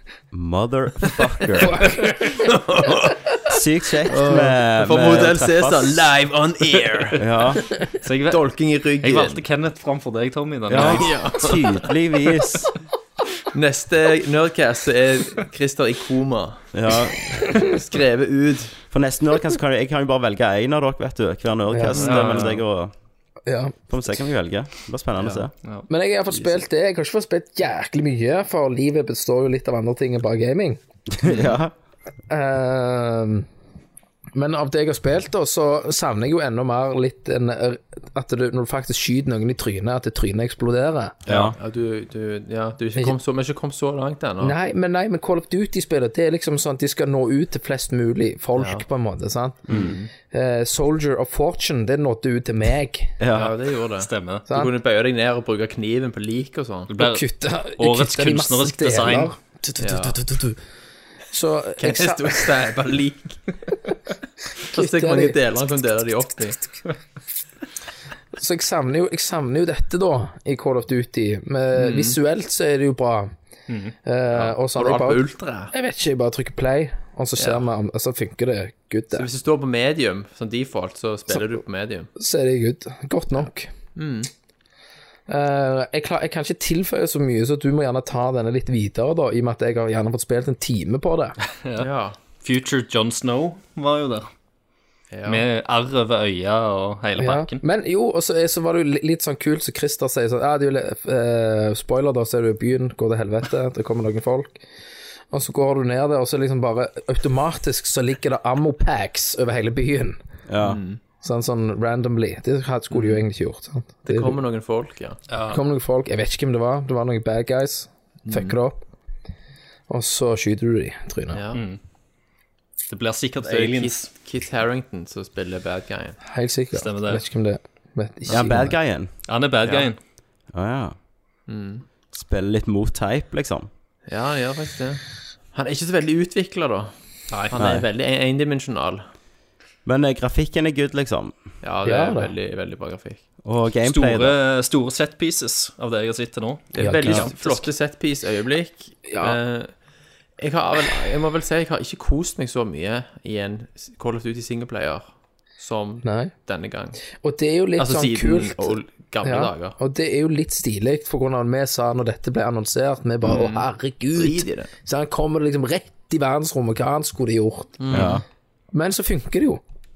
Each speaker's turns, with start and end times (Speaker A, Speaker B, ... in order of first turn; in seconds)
Speaker A: 0.3-1.9, 3.5-6.0, 7.2-7.7, 10.7-12.7, 16.7-17.5, 18.9-22.9, 23.9-25.5, 31.1-31.7, 41.3-41.6, 49.7-50.0, 53.2-53.5, 110.5-110.8, 128.3-129.1, 130.5-130.9, 132.1-133.7, 137.6-137.9, 139.8-141.3, 143.4-144.4, 167.9-168.2
Speaker B: 1.6-2.1, 21.7-22.1, 23.5-23.8, 25.9-30.8, 32.3-33.5, 34.4-41.2, 44.4-53.2, 54.5-54.7, 57.0-60.6, 61.3-62.5, 64.6-65.4, 68.3-73.3, 74.0-79.3, 82.2-83.7, 85.3-91.4, 97.2-104.6, 105.3-110.2, 111.2-114.4, 115.5-118.8, 119.9-121.4, 126.3-128.8, 141.8-142.3, 146.8-147.3, 149.1-149.4, 156.0-156.3, 157.1-168.1, 168.7-169.6
Speaker C: 1.8-3.2, 4.1-7.2, 8.3-9.4, 10.8-11.9, 13.5-16.7, 17.4-18.8, 21.9-22.3, 25.2-25.5, 26.3-26.6, 41.3-44.6, 48.6-48.8, 49.7-50.1, 53.3-56.9, 59.8-60.2, 61.8-63.4, 64.7-66.6, 71.7-72.2, 74.3-75.7, 77.4-77.6, 79.1-82.1, 84.0-84.3, 91.8-92.2, 95.1-95.4, 110.6-111.0, 112.9-113.2, 114.0-115.2, 118.3-118.6, 121.3-121.6, 123.4-126.2, 129.6-129.9, 131.5-131.9, 134.1-135.0, 135.5-139.1, 141.6-143.2, 146.7-149.7, 150.4-155.1, 155.6-157.0, 157.8-159.8, 163.2-164.7, 167.8-168.2
Speaker D: 8.0-11.2, 22.0-22.6, 54.0-54.5, 56.9-57.2, 57.8-59.3, 73.7-73.9, 91.6-91.9, 92.4-94.3, 95.3-97.6, 115.3-115.6, 121.5-121.8, 122.9-124.1, 126.7-127.2, 129.3-130.0, 143.8-147.7